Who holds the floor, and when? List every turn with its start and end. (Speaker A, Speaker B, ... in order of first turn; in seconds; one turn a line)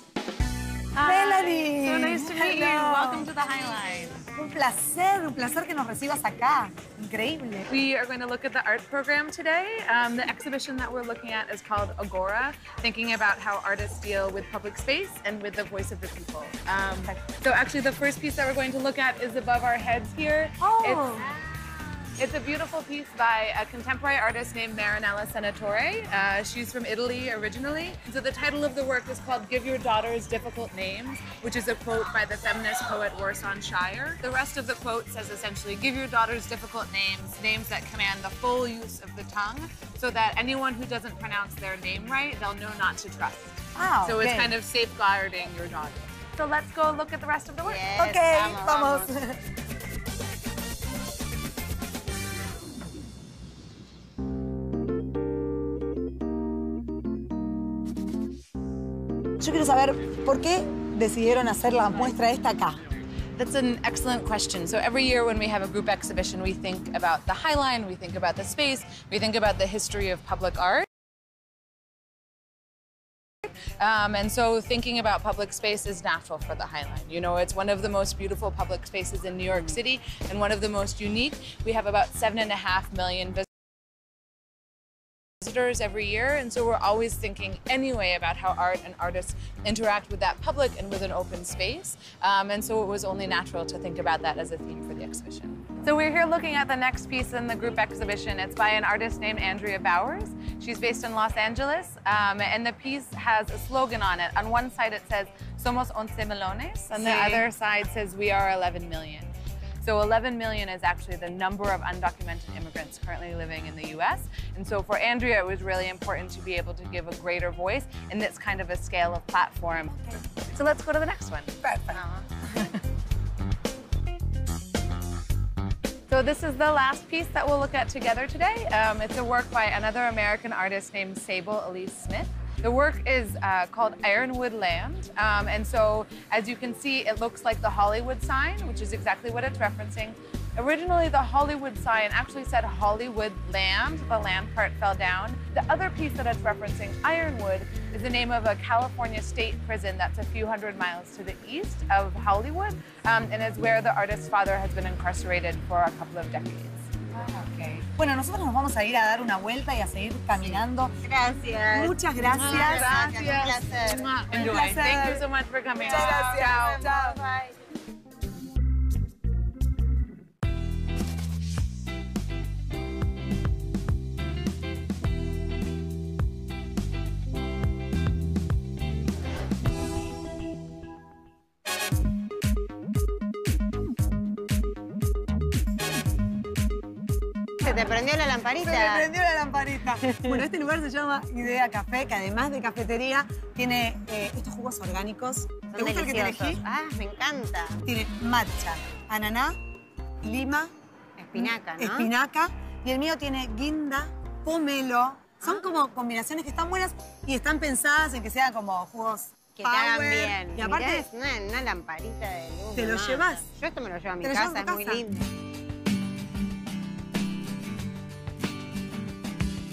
Speaker A: 0.9-4.2
Speaker B: 1.0-3.3
Speaker B: 4.3-7.7
Speaker A: 7.7-21.3
Speaker B: 20.6-21.3
Speaker A: 22.2-47.8
Speaker B: 43.8-44.5
Speaker C: 47.6-49.2
Speaker B: 48.0-49.4
Speaker B: 59.4-62.8
Speaker A: 63.4-70.9
Speaker A: 73.8-83.5
Speaker A: 85.4-109.3
Speaker B: 106.9-107.5
Speaker A: 109.8-121.5
Speaker B: 121.6-122.7
Speaker C: 121.9-122.5
Speaker A: 126.1-156.9
Speaker C: 157.2-157.7
Speaker B: 157.8-160.9
Speaker C: 160.3-164.1
Speaker B: 161.7-163.1
Speaker A: 162.3-166.9
Speaker B: 164.3-165.2
Speaker B: 165.8-167.2
Speaker C: 166.0-167.5
Speaker C: 187.6-189.1
Speaker B: 188.6-196.6
Speaker C: 190.1-190.4
Speaker C: 195.7-197.8
Speaker B: 197.8-199.6
Speaker B: 200.2-200.7
Speaker C: 201.2-202.1
Speaker B: 201.3-211.1
Speaker C: 205.4-205.7
Speaker C: 209.6-215.3
Speaker B: 212.8-213.4
Speaker B: 214.2-215.1